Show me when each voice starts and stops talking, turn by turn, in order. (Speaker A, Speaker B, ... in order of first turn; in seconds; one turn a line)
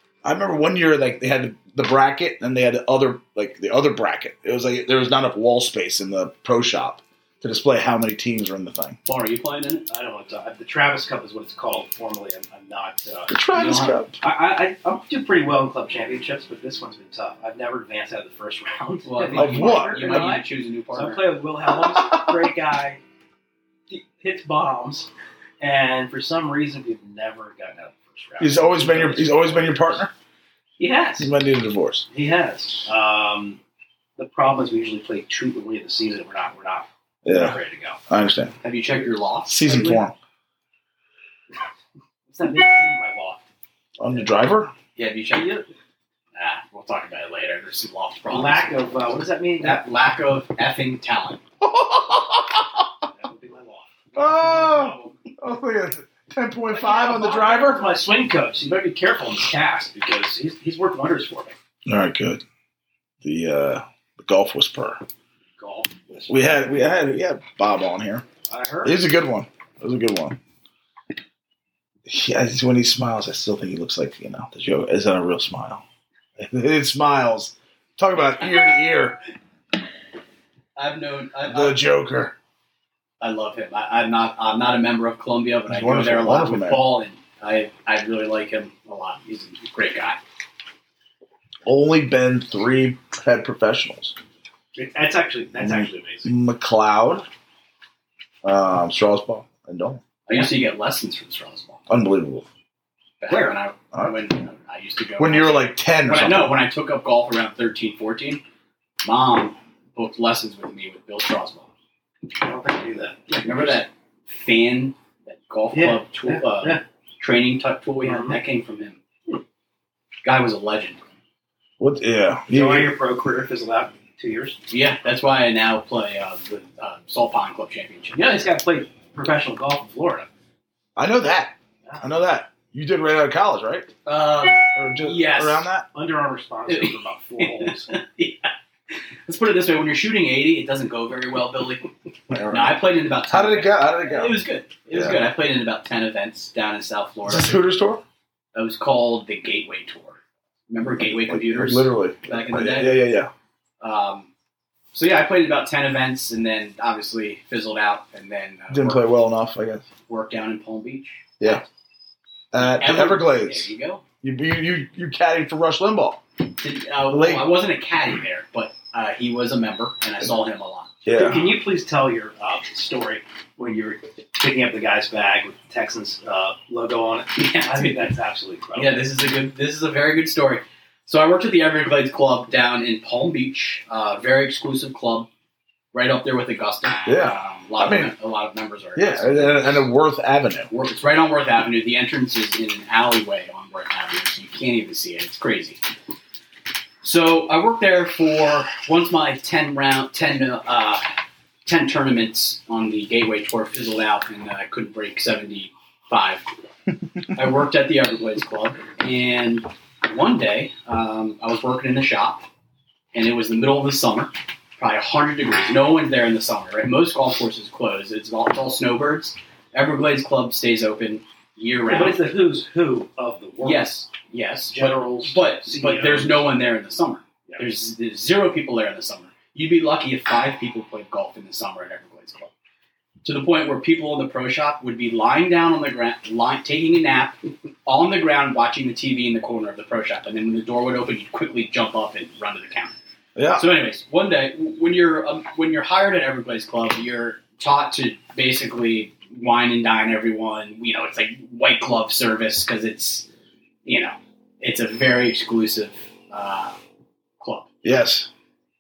Speaker A: 0.2-9.0
Speaker B: 9.0-9.8
Speaker C: 9.9-13.4
Speaker A: 13.3-14.2
Speaker B: 13.5-14.0
Speaker C: 14.2-23.0
Speaker B: 19.0-21.2
Speaker A: 19.3-20.4
Speaker A: 21.8-22.5
Speaker C: 23.9-30.0
Speaker A: 28.4-30.1
Speaker C: 30.8-31.3
Speaker A: 31.2-32.1
Speaker C: 32.1-33.6
Speaker C: 34.2-38.0
Speaker A: 37.2-37.6
Speaker A: 38.1-38.5
Speaker B: 38.6-39.6
Speaker A: 39.5-40.1
Speaker C: 39.6-40.0
Speaker C: 42.3-43.4
Speaker A: 44.0-44.7
Speaker B: 45.0-45.6
Speaker C: 45.3-45.7
Speaker B: 46.3-48.7
Speaker C: 48.3-49.8
Speaker B: 49.6-51.4
Speaker A: 51.6-52.9
Speaker C: 53.1-55.1
Speaker A: 54.1-57.9
Speaker C: 56.7-61.5
Speaker A: 61.9-62.4
Speaker A: 63.2-65.0
Speaker C: 65.6-66.4
Speaker A: 66.3-68.2
Speaker C: 68.5-69.0
Speaker A: 68.8-70.4
Speaker A: 72.0-75.8
Speaker A: 76.4-79.2
Speaker B: 80.8-81.8
Speaker A: 81.5-82.3
Speaker B: 83.2-90.2
Speaker A: 85.7-86.8
Speaker A: 91.7-94.2
Speaker C: 94.7-96.3
Speaker A: 95.6-97.2
Speaker A: 98.4-100.0
Speaker B: 100.3-101.8
Speaker A: 101.9-102.5
Speaker B: 103.2-108.4
Speaker C: 103.3-103.5
Speaker A: 105.2-106.5
Speaker B: 109.0-111.7
Speaker C: 112.4-113.8
Speaker B: 113.4-119.0
Speaker C: 115.7-116.8
Speaker C: 118.0-118.4
Speaker B: 120.2-121.0
Speaker A: 121.8-122.9
Speaker C: 122.5-124.6
Speaker B: 124.7-128.4
Speaker C: 128.1-130.3
Speaker A: 130.9-133.9
Speaker B: 134.1-135.7
Speaker A: 134.7-135.9
Speaker C: 135.9-137.9
Speaker B: 136.7-141.9
Speaker A: 142.3-144.4
Speaker B: 142.5-147.6
Speaker A: 144.9-145.2
Speaker A: 147.2-148.0
Speaker B: 148.5-150.2
Speaker B: 150.7-153.0
Speaker A: 150.9-153.3
Speaker B: 153.8-154.3
Speaker B: 154.9-159.1
Speaker A: 158.7-159.8
Speaker B: 160.1-161.6
Speaker A: 162.5-163.7
Speaker B: 162.6-164.0
Speaker A: 164.2-166.2
Speaker B: 166.6-170.9
Speaker A: 167.1-167.4
Speaker A: 171.0-171.6
Speaker C: 171.1-179.0
Speaker B: 177.4-177.9
Speaker B: 178.7-185.3
Speaker B: 185.9-189.9
Speaker A: 187.1-188.1
Speaker A: 188.9-190.7
Speaker B: 190.7-195.8
Speaker B: 197.0-201.1
Speaker B: 201.6-206.5
Speaker B: 207.3-212.4
Speaker B: 213.1-222.2
Speaker C: 221.9-223.9
Speaker B: 223.6-232.5
Speaker C: 224.7-226.5
Speaker B: 233.2-242.9
Speaker A: 243.3-243.7
Speaker B: 243.6-253.3
Speaker B: 253.8-256.8
Speaker B: 257.4-257.7
Speaker A: 257.8-258.3